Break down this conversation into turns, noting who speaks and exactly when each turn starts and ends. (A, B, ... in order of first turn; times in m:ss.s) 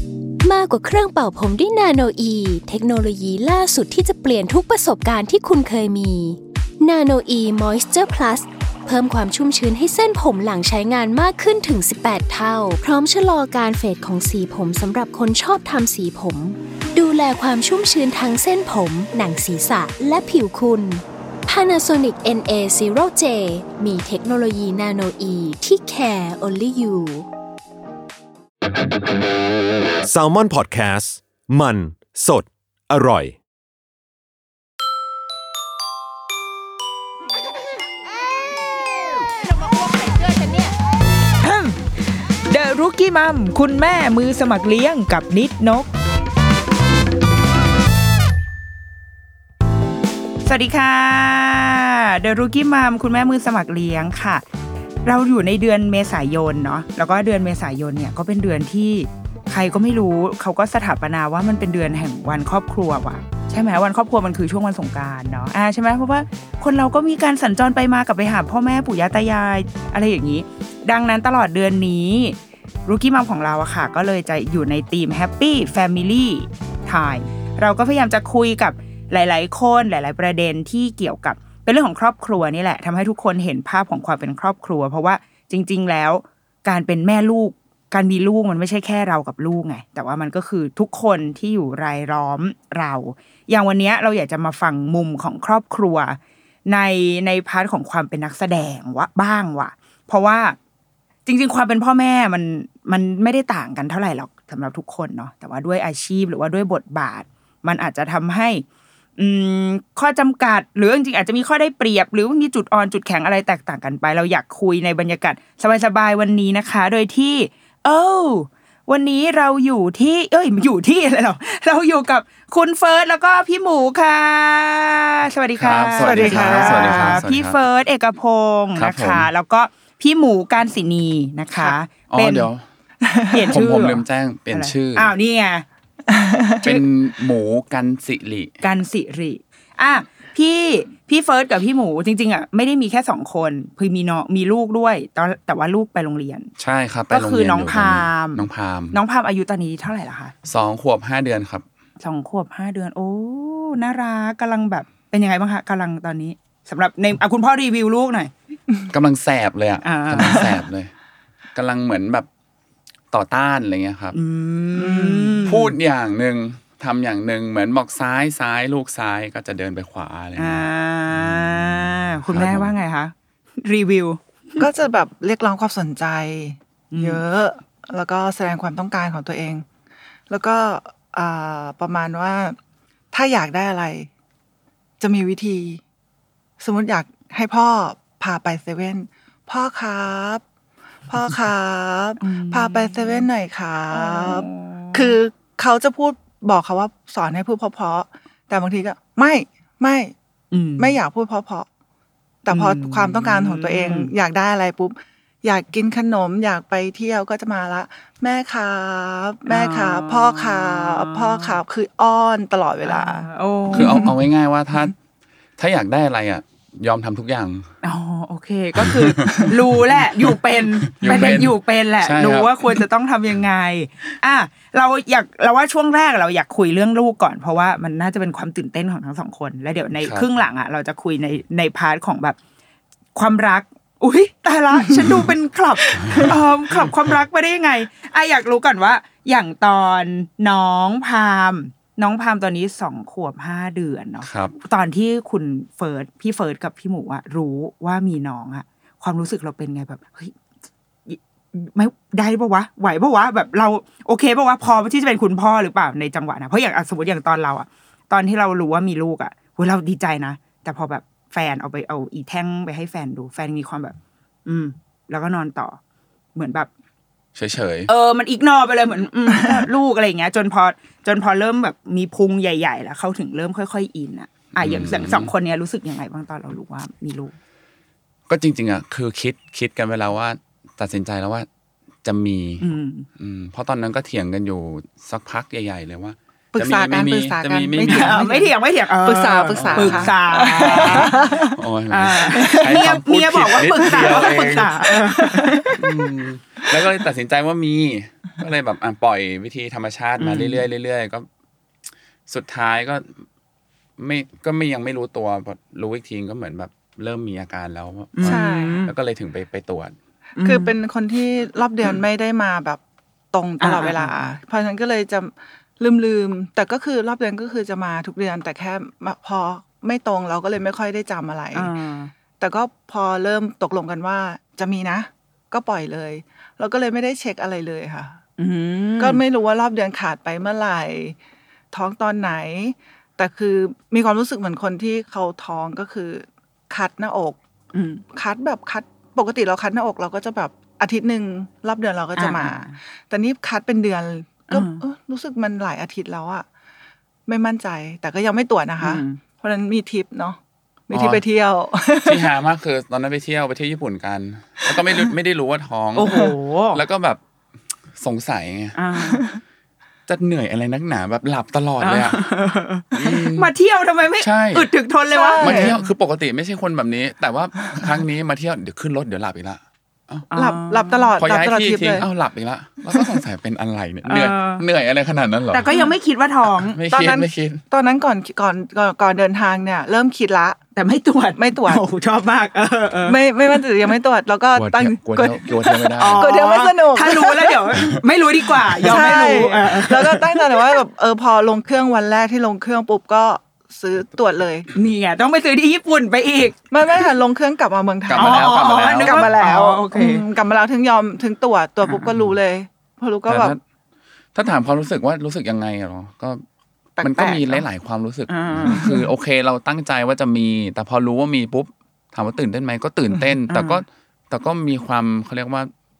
0:00.4-0:27.3 A
0:30.0-0:33.4 B
0:41.4-0:45.9 C
0:50.4-0:54.4 C
0:55.0-1:40.6 C
1:41.2-1:48.6 C
1:49.2-2:12.5 C
2:05.6-2:07.6 D
2:06.0-2:07.2 E
2:08.8-2:09.3 D
2:12.1-2:12.6 D
2:13.0-2:13.6 E
2:13.3-2:15.6 C
2:13.5-2:15.1 D
2:16.1-2:16.8 E
2:16.6-2:18.6 D
2:18.6-2:26.5 C
2:26.6-2:29.0 D
2:27.1-2:30.3 C
2:30.4-2:31.6 D
2:32.0-2:38.3 C
2:38.9-2:40.9 D
2:39.8-2:40.5 C
2:41.5-2:42.3 D
2:43.1-2:44.2 D
2:44.1-2:45.7 C
2:44.8-2:45.4 E
2:45.4-2:51.6 D
2:50.4-2:54.6 C
2:52.3-2:52.7 D
2:54.6-2:59.6 E
2:56.9-2:57.2 C
3:00.3-3:02.6 E
3:03.1-3:04.1 E
3:05.0-3:05.8 E
3:06.6-3:10.4 E
3:11.1-3:20.1 E
3:12.2-3:13.3 C
3:13.9-3:15.2 C
3:20.5-3:21.0 C
3:20.8-3:21.7 E
3:22.4-3:34.1 E
3:22.5-3:24.1 C
3:29.5-3:31.6 C
3:32.8-3:34.1 C
3:33.7-3:34.9 D
3:35.6-3:37.7 D
3:37.8-3:52.4 C
3:38.8-3:42.8 D
3:41.1-3:41.4 E
3:50.0-3:50.3 D
3:53.1-4:10.3 C
3:56.0-3:57.1 D
4:04.2-4:04.5 D
4:11.1-4:25.8 C
4:26.3-4:26.7 C
4:27.3-4:27.9 D
4:27.9-4:37.3 C
4:29.3-4:29.6 E
4:34.6-4:35.3 D
4:38.3-4:41.5 D
4:42.0-4:48.2 D
4:42.6-4:43.1 C
4:46.5-4:51.5 E
4:47.9-4:51.2 C
4:49.5-4:54.8 D
4:51.9-4:55.8 C
4:53.8-4:54.2 E
4:55.1-4:55.8 E
4:55.7-5:01.3 D
5:00.2-5:00.6 C
5:02.3-5:03.2 D
5:04.0-5:09.9 D
5:08.1-5:08.9 C
5:08.2-5:08.8 E
5:10.4-5:10.7 C
5:10.4-5:12.8 E
5:13.3-5:21.7 E
5:13.6-5:14.3 C
5:21.5-5:22.1 C
5:22.4-5:28.2 E
5:28.4-5:29.2 C
5:29.0-5:31.2 E
5:31.7-5:37.4 E
5:37.7-5:38.0 C
5:38.1-5:46.5 E
5:42.2-5:42.8 C
5:44.5-5:44.8 C
5:47.2-5:52.3 E
5:48.8-5:49.2 C
5:50.9-5:51.2 D
5:52.0-5:57.2 D
5:54.6-5:55.1 E
5:55.9-5:56.8 C
5:58.0-5:58.8 D
5:58.7-5:59.2 C
5:59.1-5:59.3 E
6:00.1-6:02.2 D
6:01.8-6:05.8 C
6:02.9-6:03.5 D
6:04.2-6:04.7 D
6:05.1-6:05.8 E
6:05.4-6:10.3 D
6:10.3-6:11.1 C
6:10.3-6:12.0 E
6:11.2-6:15.7 D
6:14.0-6:14.6 C
6:15.5-6:16.8 C
6:16.6-6:17.6 D
6:16.9-6:20.6 E
6:20.8-6:23.2 C
6:21.4-6:21.8 E
6:23.0-6:27.6 E
6:24.5-6:26.3 D
6:25.6-6:30.7 C
6:28.8-6:34.7 E
6:28.9-6:29.3 D
6:34.7-6:36.6 C
6:36.7-6:43.5 E
6:38.1-6:39.3 D
6:38.2-6:40.2 C
6:41.8-6:42.1 C
6:43.3-6:43.6 D
6:44.3-6:46.4 D
6:47.0-6:47.6 E
6:47.0-6:55.7 D
6:48.3-6:48.8 C
6:48.6-6:49.1 E
6:53.5-6:53.8 C